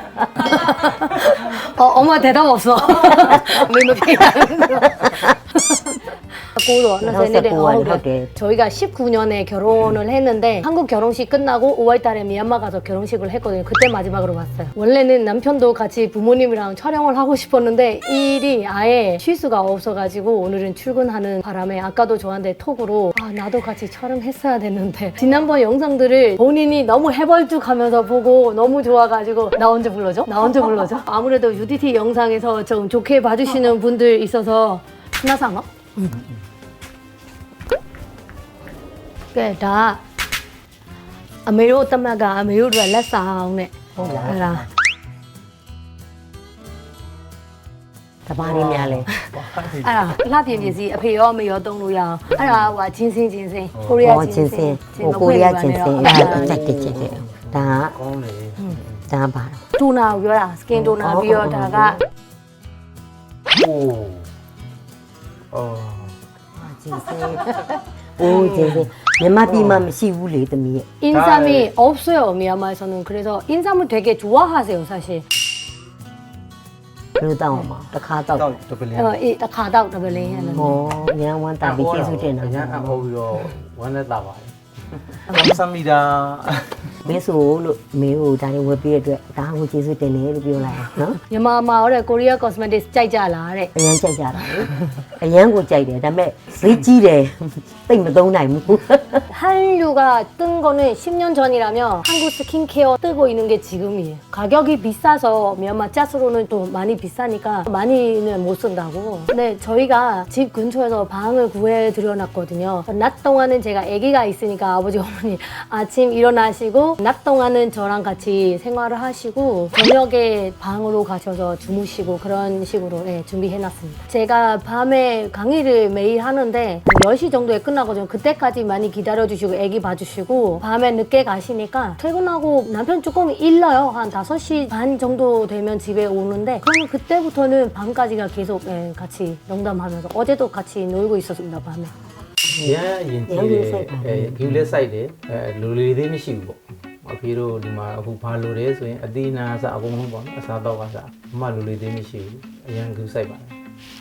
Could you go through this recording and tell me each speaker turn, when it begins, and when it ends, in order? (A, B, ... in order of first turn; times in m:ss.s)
0:00.3-0:36.2 A
0:07.0-0:08.3 B
0:39.3-0:40.0 A
0:41.5-0:44.7 A
0:44.0-0:44.6 C
0:44.0-0:44.3 B
0:48.3-0:49.1 B
0:48.4-0:50.8 C
0:49.1-0:56.6 A
0:52.4-0:52.6 C
0:53.8-0:54.0 C
0:54.0-0:57.9 B
0:56.0-0:59.1 C
0:59.1-0:59.6 B
0:59.8-1:02.0 A
1:00.7-1:02.0 B
1:03.5-1:04.3 C
1:05.5-1:06.2 C
1:06.6-1:07.5 B
1:08.2-1:10.9 B
1:08.4-1:08.7 A
1:09.5-1:09.9 C
1:11.0-1:15.2 A
1:11.1-1:11.7 C
1:17.2-1:18.6 B
1:18.4-1:19.2 C
1:18.9-1:20.8 A
1:20.1-1:20.8 C
1:20.5-1:23.0 B
1:21.6-1:27.0 C
1:27.0-1:31.2 B
1:31.3-1:33.7 A
1:33.7-1:39.2 B
1:39.3-2:21.9 A
2:22.5-2:22.8 B
2:22.6-2:33.6 C
2:23.3-2:24.8 B